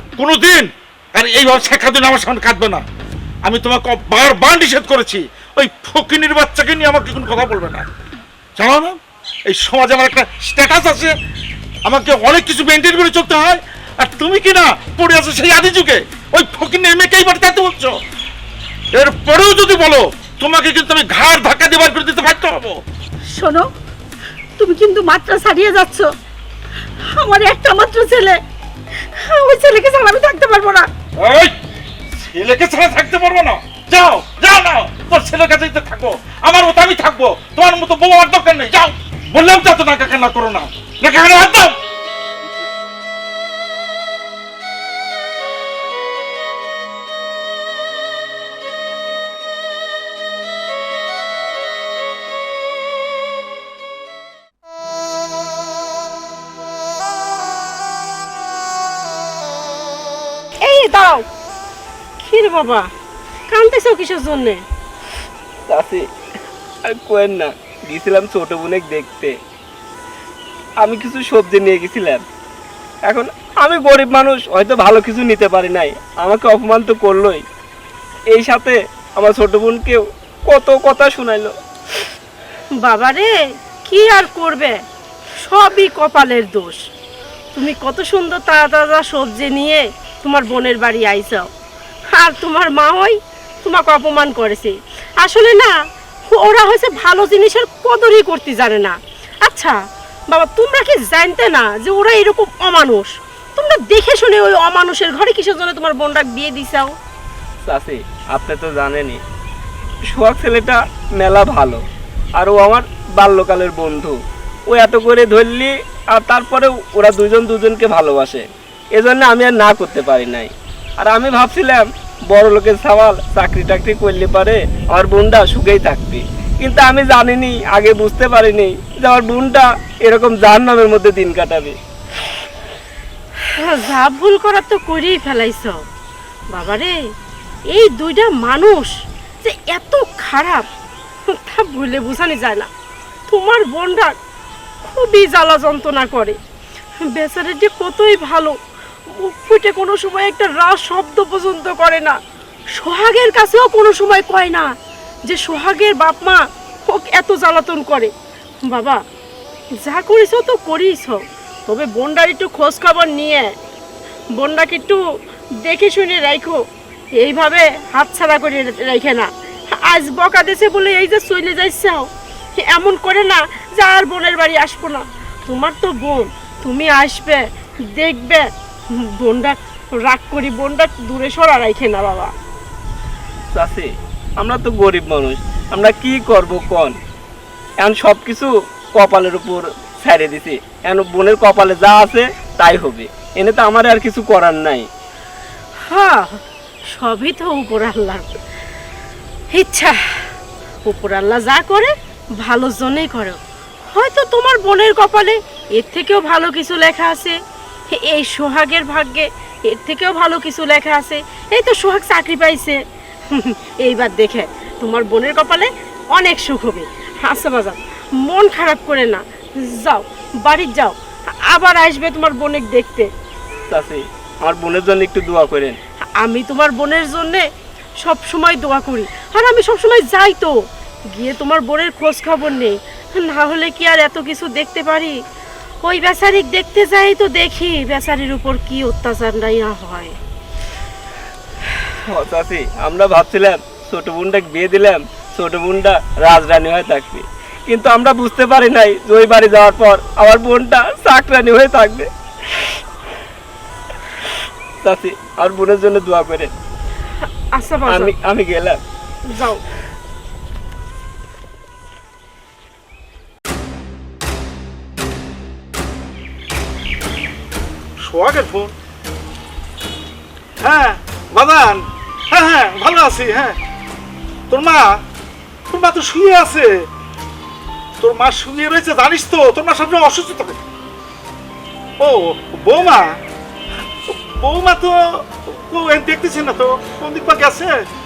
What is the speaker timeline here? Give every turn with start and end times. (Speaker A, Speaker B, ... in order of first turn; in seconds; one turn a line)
Speaker A: 0.2-2.8
Speaker A: 3.4-7.8
Speaker A: 8.6-11.1
Speaker A: 11.8-18.0
Speaker A: 18.9-22.8
Speaker B: 23.3-23.7
Speaker B: 24.6-26.1
Speaker B: 27.1-28.4
Speaker B: 29.1-30.9
Speaker A: 31.2-31.5
Speaker A: 32.1-41.8
Speaker C: 60.6-61.2
Speaker C: 62.2-62.9
Speaker C: 63.5-64.6
Speaker D: 65.7-66.0
Speaker D: 66.8-69.3
Speaker D: 70.8-72.2
Speaker D: 73.1-77.4
Speaker D: 78.3-81.5
Speaker C: 82.8-83.3
Speaker C: 83.9-84.8
Speaker C: 85.4-86.8
Speaker C: 87.5-91.5
Speaker C: 92.1-95.7
Speaker C: 96.3-99.8
Speaker C: 100.3-106.9
Speaker D: 107.7-109.2
Speaker D: 110.1-111.8
Speaker D: 112.4-114.2
Speaker D: 114.7-131.8
Speaker C: 133.6-135.8
Speaker C: 136.5-137.0
Speaker C: 137.7-138.9
Speaker C: 139.4-140.7
Speaker C: 141.3-142.7
Speaker C: 143.3-144.1
Speaker C: 144.8-146.4
Speaker C: 147.0-148.5
Speaker C: 149.1-152.2
Speaker C: 152.8-154.7
Speaker C: 155.2-158.1
Speaker C: 158.7-159.0
Speaker C: 159.8-163.5
Speaker C: 164.3-165.0
Speaker C: 165.6-166.6
Speaker C: 167.2-182.3
Speaker D: 183.5-186.9
Speaker D: 187.8-194.9
Speaker C: 195.9-196.4
Speaker C: 196.9-198.3
Speaker C: 199.5-200.3
Speaker C: 200.8-203.4
Speaker C: 203.9-207.4
Speaker C: 207.9-212.8
Speaker C: 213.3-221.0
Speaker C: 221.5-223.1
Speaker D: 223.7-225.8
Speaker C: 226.2-227.4
Speaker C: 228.0-230.6
Speaker C: 231.1-235.1
Speaker C: 235.8-240.1
Speaker D: 242.1-252.7
Speaker D: 254.8-256.5
Speaker C: 257.6-258.1
Speaker D: 257.9-258.8
Speaker C: 259.3-259.6
Speaker A: 268.0-268.7
Speaker A: 270.6-273.6
Speaker A: 274.5-275.0
Speaker A: 275.7-276.9
Speaker A: 278.0-280.6
Speaker A: 282.0-283.1
Speaker A: 284.1-287.7